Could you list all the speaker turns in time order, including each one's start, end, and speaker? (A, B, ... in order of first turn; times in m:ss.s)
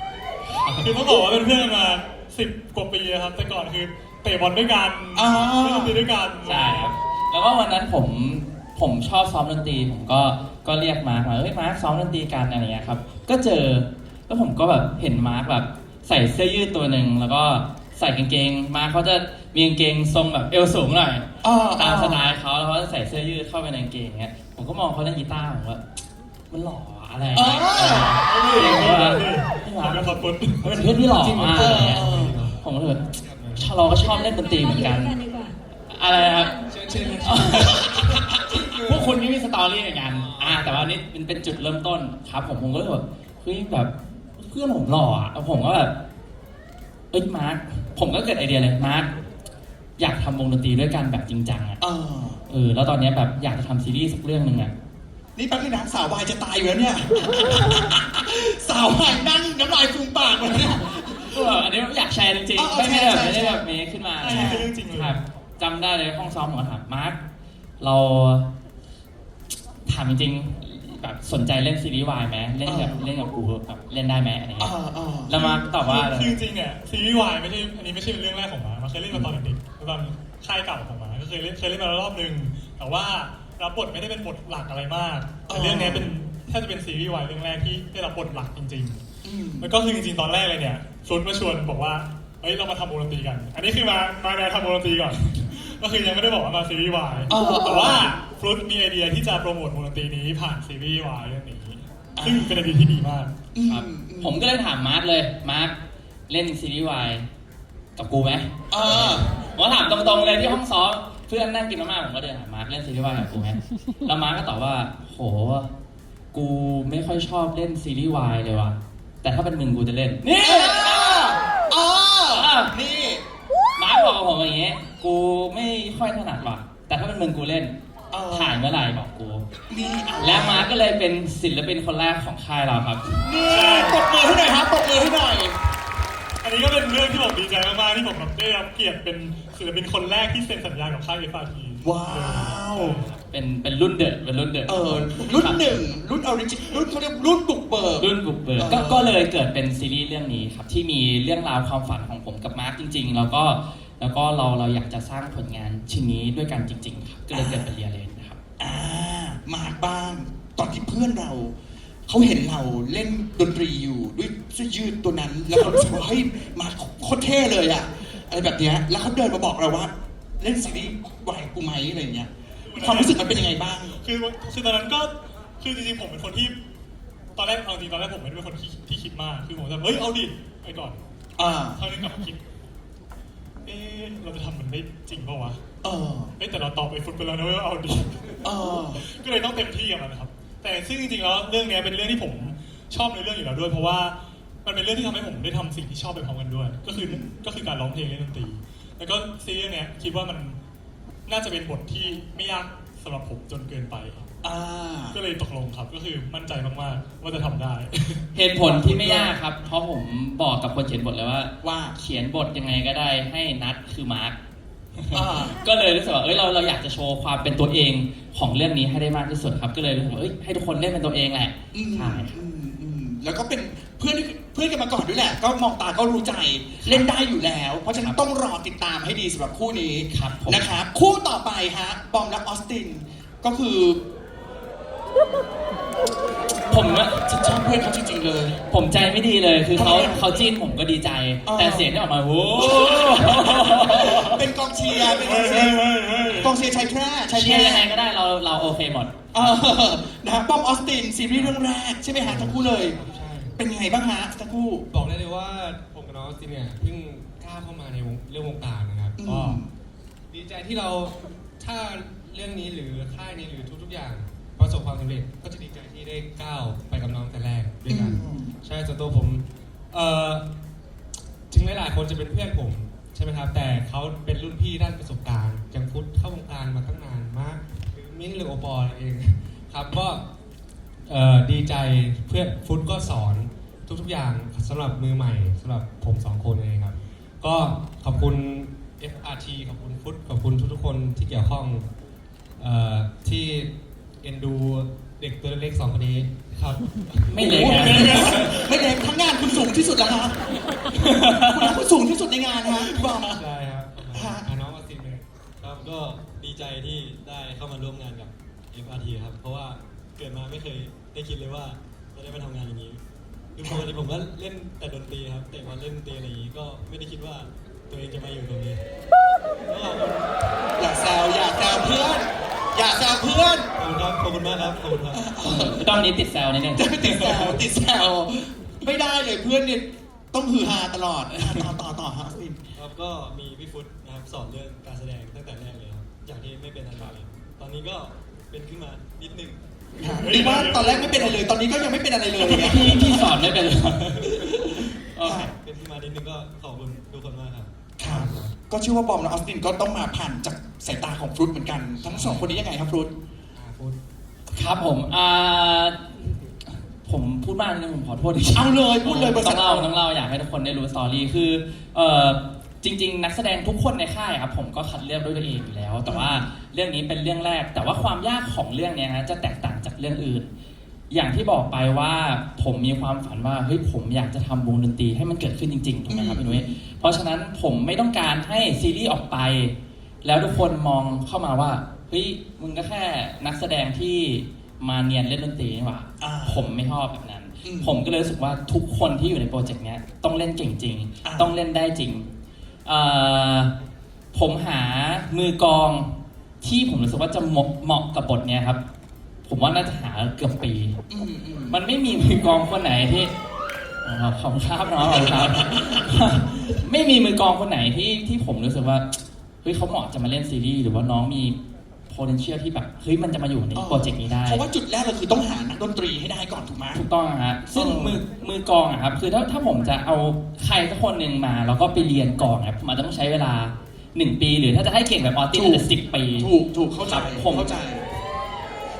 0:00.4-0:01.0 A
0:00.8-0:06.9 B
0:05.1-0:06.0 C
0:06.4-0:25.8 A
0:21.4-0:22.2 C
0:26.5-0:35.2 A
0:27.3-0:28.2 C
0:28.2-0:30.8 B
0:30.6-0:33.7 D
0:31.6-0:32.4 C
0:33.9-0:37.8 E
0:35.9-0:36.5 A
0:36.7-0:39.3 D
0:37.2-0:45.9 A
0:40.1-0:40.9 D
0:47.1-0:49.1 A
0:50.0-0:51.8 A
0:51.8-0:52.4 C
0:52.5-0:54.7 A
0:55.4-1:01.5 C
1:01.2-1:07.2 A
1:02.6-1:03.6 C
1:04.2-1:05.2 B
1:04.2-1:04.7 C
1:07.8-1:08.5 A
1:09.8-1:14.7 A
1:12.6-1:13.0 C
1:14.6-1:15.4 C
1:15.3-1:16.4 A
1:15.4-1:29.0 B
1:25.5-1:26.1 C
1:29.2-1:29.7 C
1:29.6-1:43.3 B
1:37.3-1:38.1 C
1:42.2-1:42.6 C
1:43.5-1:44.4 C
1:43.6-1:45.8 A
1:46.3-1:47.2 A
1:48.0-1:55.7 A
1:48.7-1:49.3 C
1:56.3-2:01.0 A
2:00.3-2:03.2 C
2:02.3-2:02.7 A
2:03.8-2:07.8 A
2:08.1-2:08.6 C
2:08.3-2:09.4 A
2:09.7-2:10.7 C
2:10.2-2:13.3 A
2:13.2-2:15.6 C
2:13.5-2:14.0 B
2:16.4-2:23.0 B
2:21.8-2:23.0 C
2:23.2-2:25.7 A
2:24.7-2:29.2 C
2:28.0-2:38.4 A
2:37.3-2:37.7 C
2:38.6-2:41.5 C
2:42.1-2:54.0 C
2:52.7-2:53.4 B
2:54.0-2:56.5 B
2:57.4-3:01.0 B
3:01.4-3:01.8 C
3:01.8-3:02.4 B
3:03.6-3:05.6 B
3:05.8-3:06.3 C
3:06.4-3:08.4 B
3:08.4-3:09.0 C
3:09.0-3:20.6 B
3:16.9-3:17.3 C
3:21.3-3:24.2 B
3:24.4-3:25.2 C
3:25.1-3:28.2 B
3:28.3-3:34.4 A
3:28.6-3:29.3 C
3:31.6-3:31.9 C
3:35.1-3:42.3 A
3:35.1-3:35.6 C
3:41.7-3:54.0 C
3:46.8-3:47.0 A
3:50.1-3:50.7 A
3:56.7-3:57.3 A
3:57.2-3:58.6 C
3:58.7-4:04.4 A
3:59.8-4:00.2 C
4:01.4-4:01.9 C
4:02.5-4:07.9 C
4:05.0-4:06.6 B
4:07.3-4:09.2 A
4:09.3-4:13.0 C
4:12.2-4:13.6 D
4:13.6-4:14.9 C
4:14.9-4:19.6 D
4:19.2-4:19.7 C
4:20.3-4:30.4 D
4:27.9-4:28.5 C
4:31.5-4:40.2 D
4:41.1-4:51.9 D
4:52.6-4:58.6 D
4:57.3-4:58.5 A
4:57.4-5:00.4 C
4:57.9-4:58.5 B
5:00.9-5:01.8 A
5:01.3-5:03.4 C
5:02.8-5:05.2 D
5:04.1-5:04.5 C
5:05.6-5:13.0 F
5:13.5-5:18.8 F
5:19.7-5:20.5 F
5:20.8-5:23.7 C
5:23.8-5:25.3 F
5:25.1-5:26.0 C
5:25.4-5:27.5 A
5:26.8-5:32.6 C
5:32.8-5:39.6 F
5:40.0-5:43.1 C
5:40.0-5:41.4 B
5:42.4-5:45.5 A
5:45.2-5:45.5 C
5:45.5-5:47.7 F
5:48.0-5:53.1 C
5:48.0-5:48.5 D
5:52.0-5:52.6 D
5:53.5-5:54.0 D
5:54.5-6:10.5 A
5:58.5-5:59.9 C
6:06.0-6:06.4 C
6:11.1-6:32.3 A
6:16.1-6:16.8 C
6:26.2-6:26.7 C
6:27.6-6:28.0 C
6:31.2-6:31.5 C
6:32.9-6:33.7 A
6:34.3-6:38.8 A
6:39.4-6:41.0 A
6:41.1-6:41.8 C
6:41.7-6:43.3 A
6:44.0-6:51.6 A
6:45.0-6:46.4 C
6:52.1-6:54.6 A
6:53.8-6:57.0 C
6:56.9-7:06.5 A
6:57.7-6:58.2 C
7:05.5-7:08.0 C
7:07.0-7:07.8 A